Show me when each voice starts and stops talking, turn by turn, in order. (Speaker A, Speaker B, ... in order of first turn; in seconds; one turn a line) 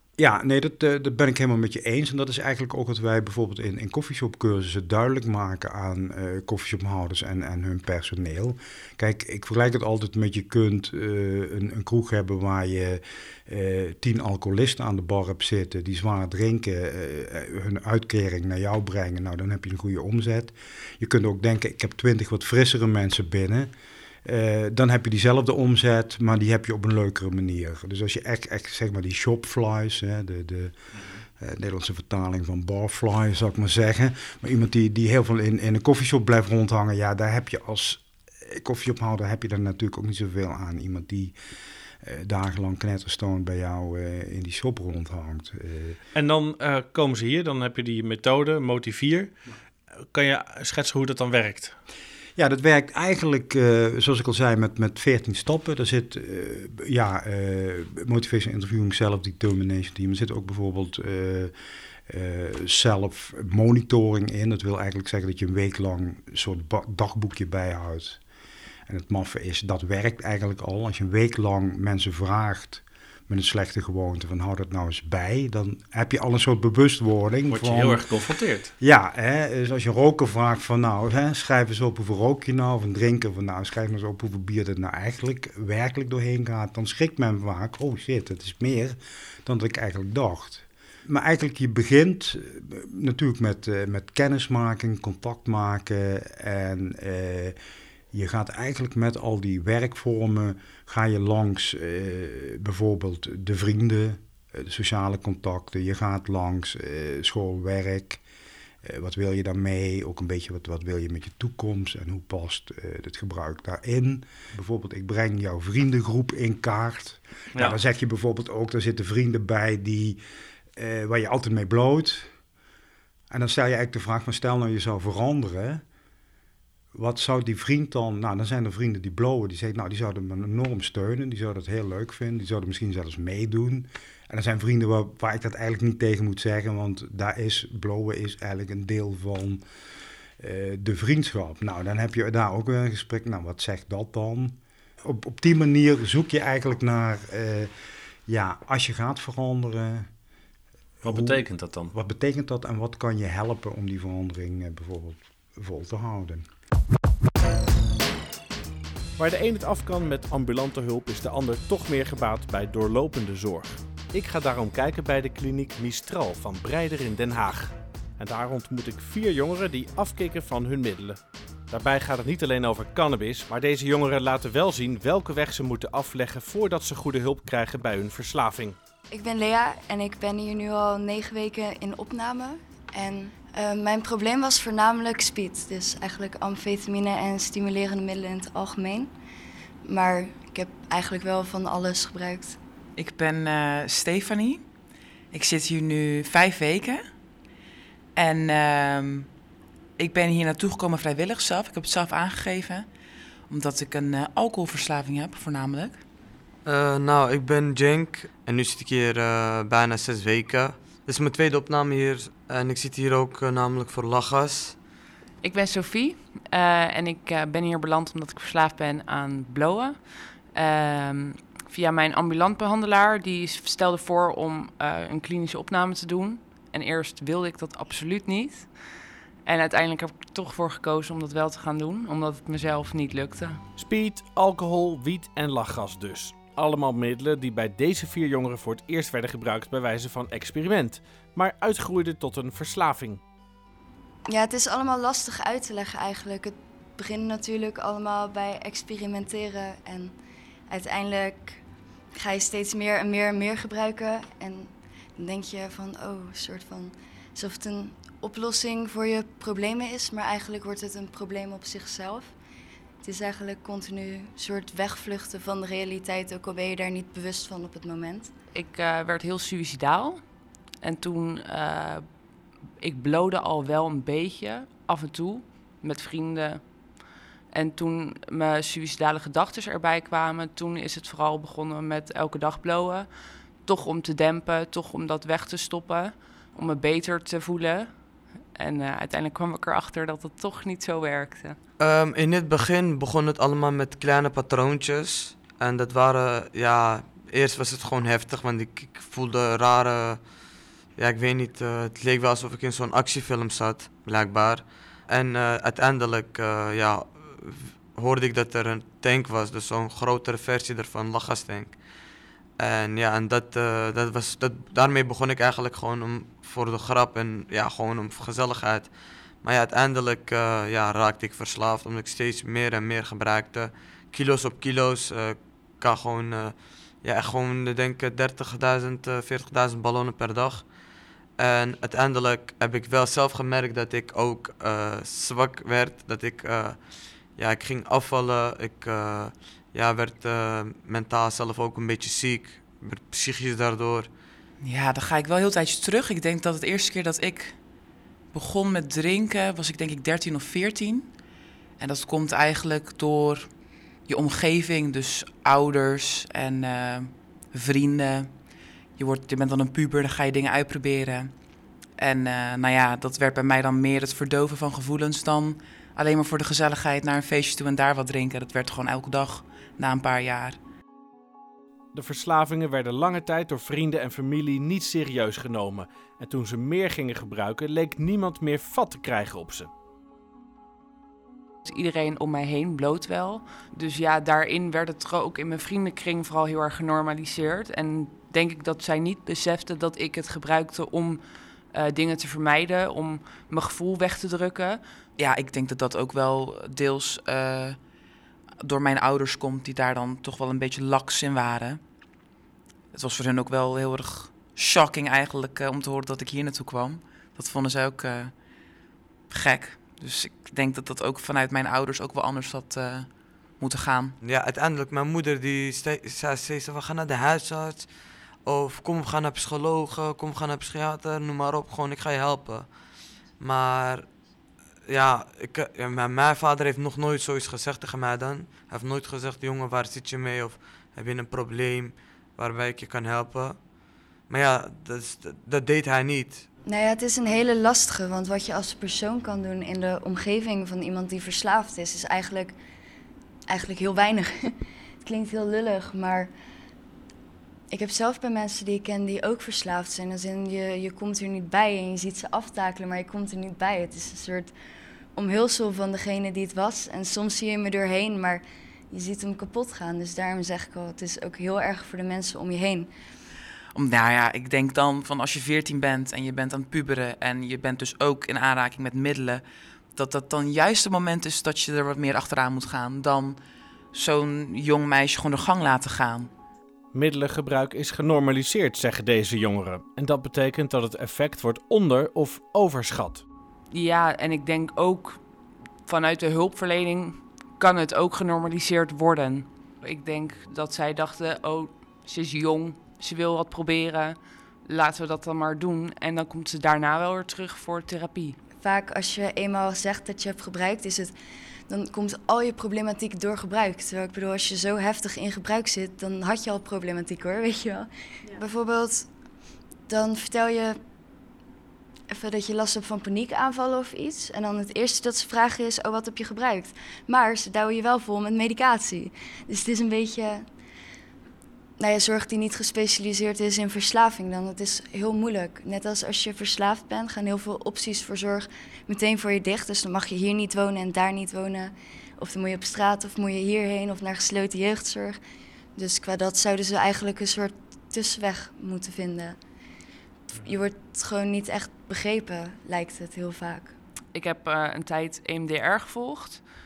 Speaker A: 0.2-23.7
Speaker A: 24.2-30.8
Speaker A: 31.4-41.3
Speaker A: 42.0-46.0
Speaker B: 46.1-49.3
Speaker B: 50.1-51.8
Speaker A: 52.4-61.5
Speaker A: 62.1-68.2
Speaker A: 68.9-78.1
Speaker B: 77.5-78.7
Speaker A: 78.8-97.6
Speaker A: 98.1-108.2
Speaker A: 108.8-120.2
Speaker A: 120.8-122.3
Speaker A: 123.3-125.8
Speaker A: 127.0-139.6
Speaker A: 140.4-147.7
Speaker A: 148.3-150.1
Speaker B: 151.0-151.9
Speaker A: 151.0-156.4
Speaker B: 159.2-171.2
Speaker B: 171.7-178.8
Speaker C: 179.1-189.1
Speaker C: 189.8-192.6
Speaker D: 193.0-194.6
Speaker D: 195.3-197.0
Speaker D: 198.2-199.3
Speaker D: 200.0-202.9
Speaker D: 203.5-206.0
Speaker E: 206.7-214.8
Speaker F: 215.4-228.7
Speaker F: 229.4-233.6
Speaker B: 233.8-243.2
Speaker C: 244.3-250.1
Speaker C: 250.7-251.6
Speaker C: 252.1-262.3
Speaker C: 263.0-268.3
Speaker F: 268.5-270.2
Speaker F: 270.8-272.1
Speaker F: 272.8-276.8
Speaker F: 277.5-291.6
Speaker E: 291.8-300.3
Speaker E: 301.0-311.8
Speaker E: 312.6-330.7
Speaker E: 331.4-344.1
Speaker D: 344.6-347.6
Speaker D: 348.3-351.1
Speaker D: 351.8-353.5
Speaker D: 354.1-358.3
Speaker D: 359.0-361.3
Speaker D: 362.0-370.6
Speaker B: 371.9-379.7
Speaker F: 381.6-391.2
Speaker F: 391.7-394.8
Speaker D: 395.2-397.8
Speaker D: 398.6-401.8
Speaker D: 402.9-408.3
Speaker D: 409.3-414.1
Speaker E: 414.2-417.9
Speaker E: 418.4-422.8
Speaker E: 423.4-424.1
Speaker E: 424.9-433.7
Speaker E: 434.3-436.4
Speaker C: 436.6-442.6
Speaker C: 443.5-444.5
Speaker C: 445.0-446.3
Speaker C: 447.7-454.5
Speaker C: 455.2-462.9
Speaker D: 463.7-469.4
Speaker D: 469.9-473.4
Speaker D: 473.9-476.3
Speaker B: 476.9-483.2
Speaker F: 483.7-485.2
Speaker F: 485.9-498.4
Speaker C: 498.6-501.1
Speaker C: 501.7-509.1
Speaker C: 509.9-510.8
Speaker C: 512.1-520.5
Speaker C: 521.8-535.2
Speaker C: 535.8-539.4
Speaker C: 540.3-543.7
Speaker F: 544.1-546.5